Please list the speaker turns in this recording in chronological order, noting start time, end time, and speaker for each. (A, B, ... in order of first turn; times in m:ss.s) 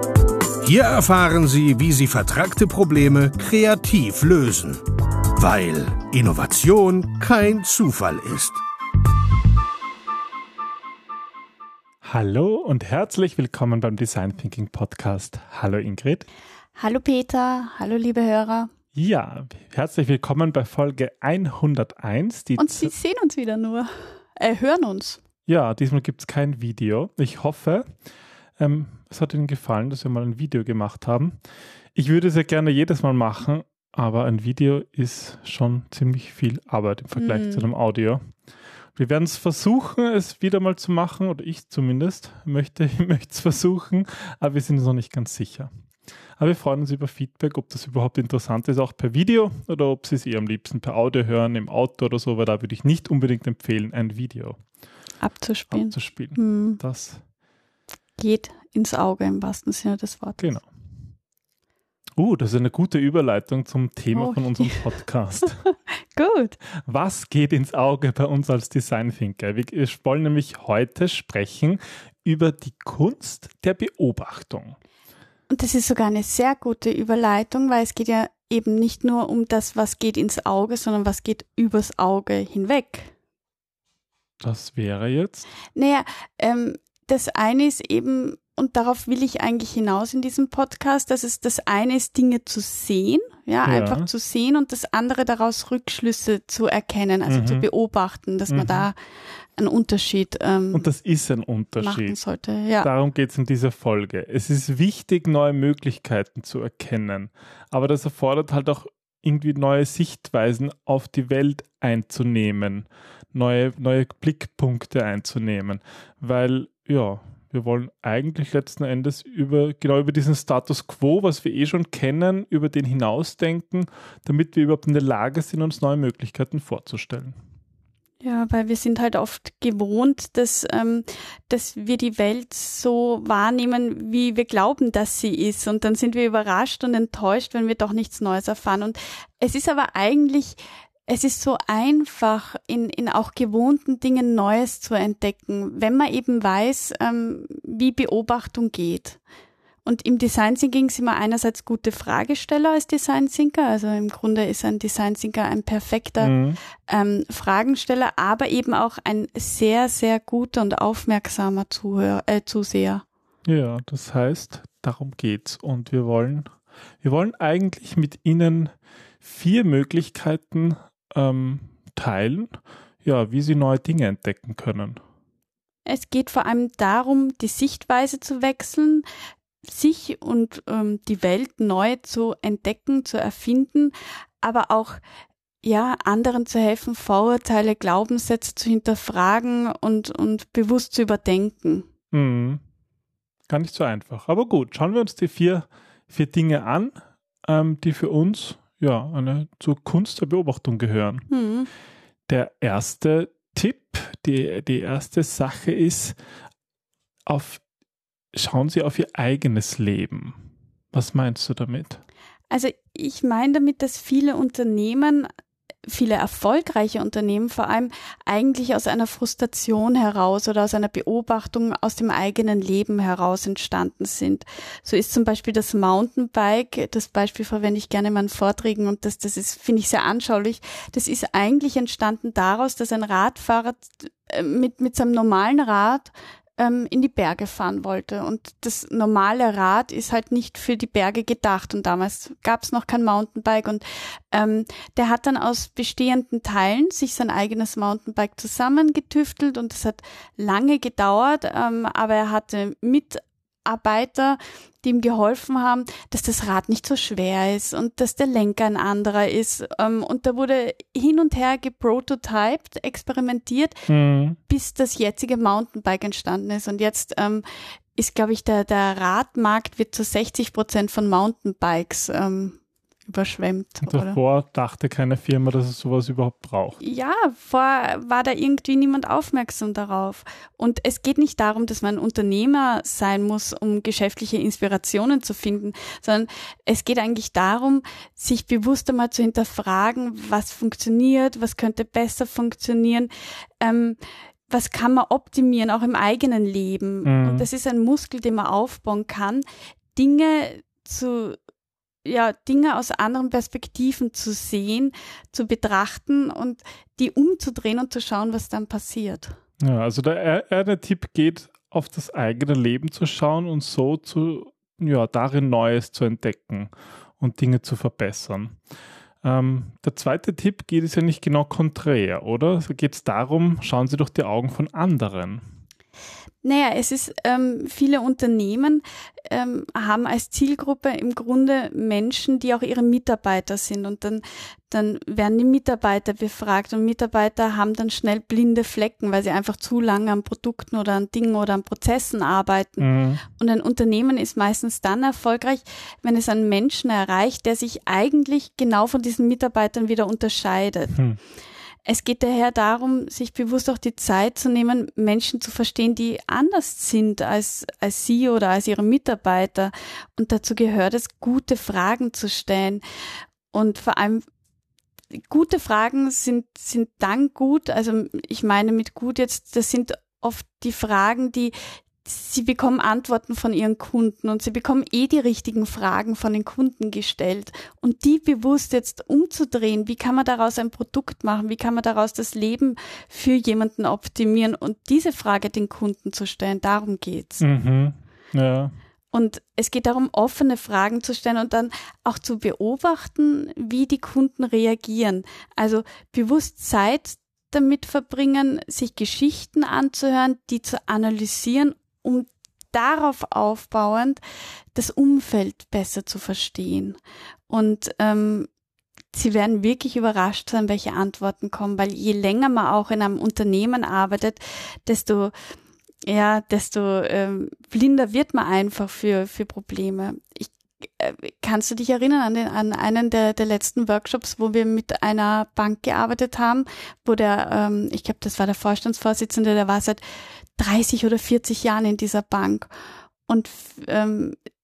0:00.6-0:04.8 A
0:05.4-0:08.6 A
0:12.0-0:16.2 B
0:16.8-0:18.7 C
0:19.0-0:22.9 B
0:22.6-0:25.2 C
0:25.5-0:27.8 B
0:28.6-0:31.4 B
0:32.0-0:38.2 B
0:37.2-0:37.7 C
0:39.0-0:45.7 B
0:46.4-0:54.6 B
0:55.2-0:56.8 C
0:55.7-0:57.2 B
0:58.2-1:00.6 C
1:00.4-1:00.7 B
1:02.2-1:05.6 B
1:04.1-1:04.9 C
1:05.4-1:06.6 C
1:06.9-1:14.8 B
1:15.5-1:23.1 C
1:24.4-1:25.5 B
1:25.7-1:39.0 C
1:33.6-1:34.1 B
1:37.3-1:37.7 B
1:38.5-1:38.9 B
1:39.6-1:40.9 C
1:40.7-1:42.2 B
1:41.8-1:42.9 C
1:42.8-2:07.4 B
2:08.2-2:29.2 C
2:29.8-2:43.0 C
2:36.2-2:36.6 B
2:43.4-2:46.5 B
2:47.0-2:52.5 B
2:53.0-2:55.0 B
2:55.9-2:59.0 C
2:59.6-3:05.0 C
3:05.6-3:11.9 C
3:12.1-3:12.6 B
3:13.5-3:16.9 B
3:17.4-3:21.2 B
3:21.3-3:21.7 C
3:22.3-3:26.2 B
3:27.3-3:27.6 B
3:28.3-3:30.4 B
3:30.9-3:32.0 B
3:32.5-3:35.3 C
3:35.9-4:23.8 C
4:23.9-4:24.4 B
4:24.5-4:27.4 C
4:28.0-4:34.2 C
4:33.8-4:36.8 B
4:36.8-4:59.4 C
4:57.0-4:57.5 B
5:00.0-5:01.4 C
5:02.0-5:09.4 C
5:09.6-5:18.6 B
5:19.2-5:25.4 B
5:26.4-5:51.0 C
5:42.8-5:43.2 B
5:51.8-6:02.8 C
6:03.5-6:04.2 C
6:05.2-6:27.5 C
6:27.4-6:28.7 B
6:29.1-6:44.2 C
6:44.8-6:47.0 C
6:47.5-6:48.5 C
6:49.1-6:55.3 C
6:56.0-7:10.0 C
7:10.6-7:12.7 C
7:13.3-7:14.4 C